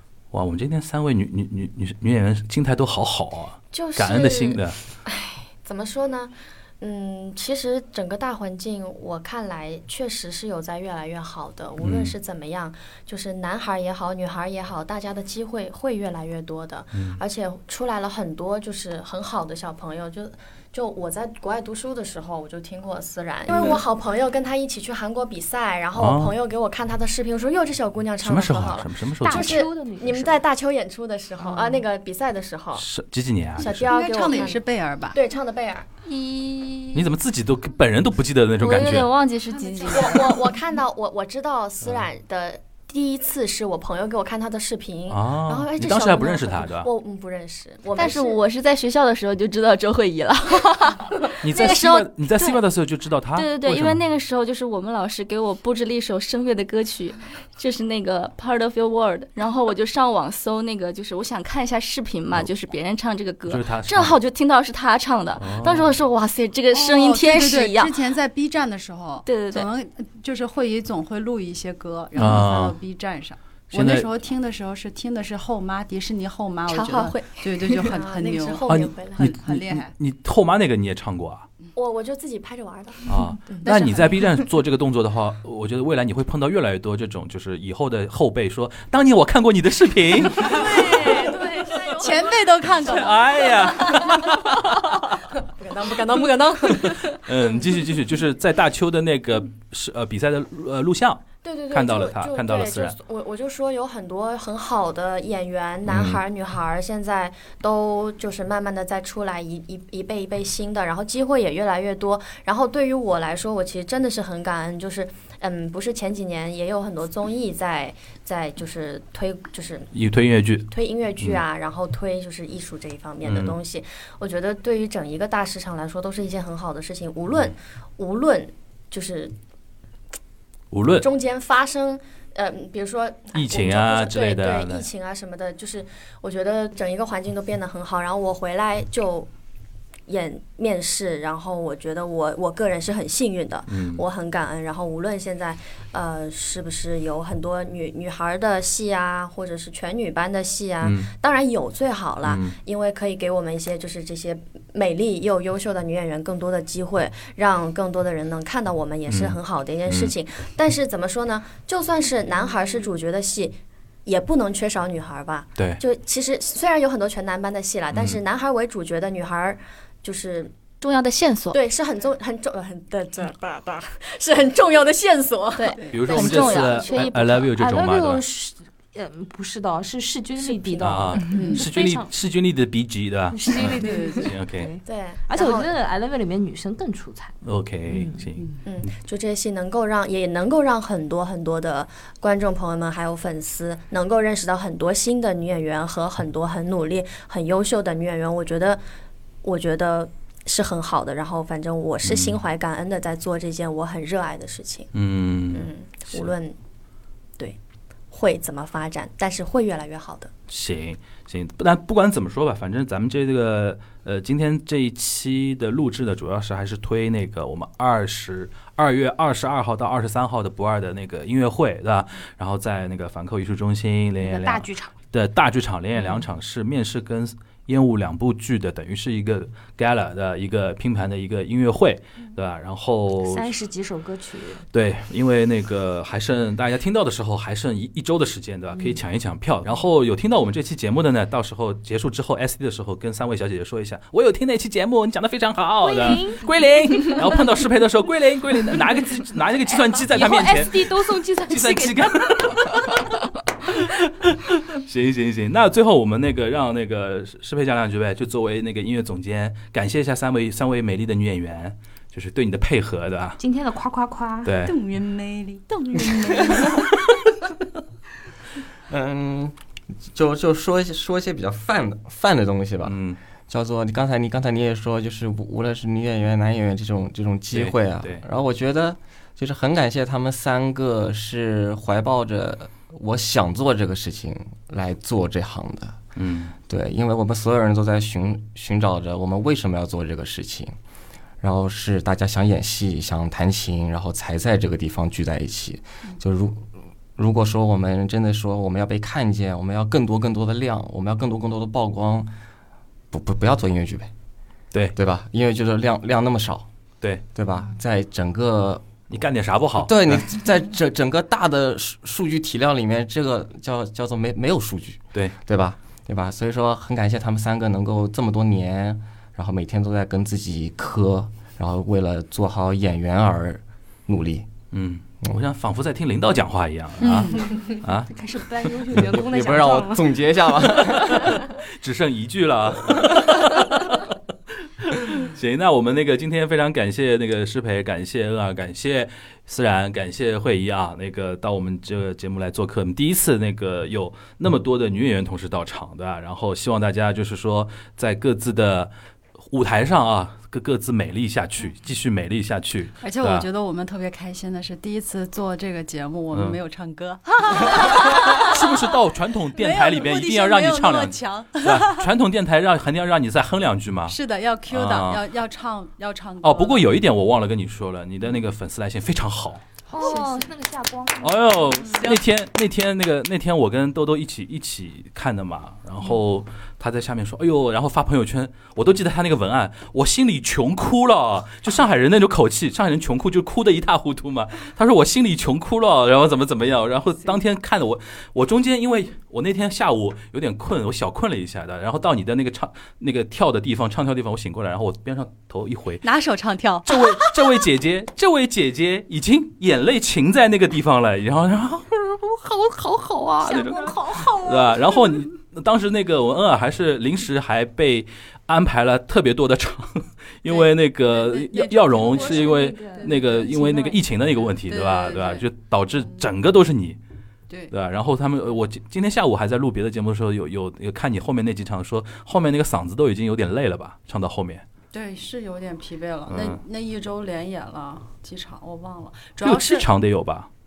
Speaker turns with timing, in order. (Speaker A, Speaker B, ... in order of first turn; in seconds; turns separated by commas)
Speaker A: 0.3-4.8, Speaker B: 3.7-32.9, Speaker A: 11.8-12.1, Speaker A: 16.9-17.2, Speaker A: 26.0-26.4, Speaker A: 28.2-29.7, Speaker C: 29.2-30.4, Speaker C: 31.4-31.8, Speaker A: 32.8-34.0, Speaker B: 33.6-35.9, Speaker D: 33.9-35.2, Speaker E: 36.1-37.1, Speaker A: 36.9-39.1, Speaker E: 38.6-40.5, Speaker D: 39.5-40.2, Speaker B: 39.9-48.4, Speaker A: 45.1-46.9, Speaker E: 48.0-52.6, Speaker A: 51.4-54.0, Speaker E: 53.4-68.0, Speaker A: 63.5-64.2, Speaker A: 65.4-66.0, Speaker D: 66.7-79.9, Speaker E: 69.2-69.7, Speaker A: 72.2-72.8, Speaker A: 73.7-74.1, Speaker E: 76.7-77.8, Speaker B: 77.9-79.3, Speaker A: 78.7-81.5, Speaker B: 81.8-83.6, Speaker A: 83.1-91.3, Speaker D: 83.6-84.2, Speaker B: 90.3-94.2, Speaker D: 92.0-93.5, Speaker A: 92.8-95.1, Speaker B: 95.4-97.2, Speaker A: 96.7-103.0, Speaker B: 101.4-119.9, Speaker A: 105.8-106.2, Speaker A: 119.9-120.7, Speaker B: 120.7-129.3, Speaker A: 123.2-123.6, Speaker A: 130.7-131.1, Speaker B: 130.9-139.3, Speaker A: 133.3-134.9, Speaker B: 140.1-170.5, Speaker A: 143.7-144.0, Speaker A: 150.8-151.1, Speaker A: 152.2-152.6, Speaker A: 159.1-160.1, Speaker A: 165.6-165.8, Speaker A: 167.9-168.2, Speaker E: 170.8-171.6, Speaker B: 171.5-176.8, Speaker E: 175.6-177.1, Speaker A: 175.9-178.2, Speaker C: 176.7-182.1, Speaker A: 180.8-184.7, Speaker D: 181.3-181.7, Speaker C: 183.3-187.3, Speaker D: 183.8-184.3, Speaker B: 184.8-185.7, Speaker A: 187.4-188.9, Speaker C: 187.9-188.3, Speaker B: 188.7-198.8, Speaker B: 199.4-204.9, Speaker A: 202.0-202.4, Speaker A: 204.9-206.3, Speaker B: 205.5-206.6, Speaker B: 208.1-210.3, Speaker A: 210.5-233.6, Speaker C: 224.2-224.9, Speaker C: 233.2-234.7, Speaker A: 234.7-263.4, Speaker C: 245.8-247.4, Speaker C: 250.1-252.9, Speaker C: 263.4-265.2, Speaker A: 264.4-264.8, Speaker D: 264.7-265.6, Speaker C: 265.7-267.0, Speaker F: 268.9-269.6, Speaker F: 270.1-273.0, Speaker A: 272.9-273.2, Speaker F: 273.5-286.0, Speaker A: 277.5-278.2, Speaker A: 286.2-286.6, Speaker F: 286.7-290.8, Speaker F: 291.4-302.3, Speaker F: 303.1-304.1, Speaker F: 304.9-306.7, Speaker F: 307.3-309.0, Speaker A: 309.1-310.2, Speaker F: 309.8-324.5, Speaker A: 324.7-329.1, Speaker D: 327.0-327.4, Speaker C: 327.4-330.1, Speaker F: 329.2-331.3, Speaker A: 331.1-334.1, Speaker A: 334.8-348.9, Speaker A: 349.5-353.5, Speaker D: 353.0-358.8, Speaker A: 356.3-356.6, Speaker A: 357.6-364.2, Speaker D: 359.6-362.1, Speaker D: 364.1-367.0, Speaker A: 364.7-365.2, Speaker A: 366.4-369.7, Speaker C: 369.9-371.9, Speaker D: 369.9-370.4, Speaker E: 369.9-370.4, Speaker A: 371.2-396.1, Speaker D: 371.9-372.2, Speaker D: 396.0-397.5, Speaker A: 396.9-417.0, Speaker C: 403.4-405.2, Speaker D: 410.5-413.5, Speaker C: 411.8-414.0, Speaker D: 414.6-415.5, Speaker A: 417.7-424.6, Speaker D: 424.9-429.9, Speaker A: 426.3-426.6, Speaker A: 429.4-430.5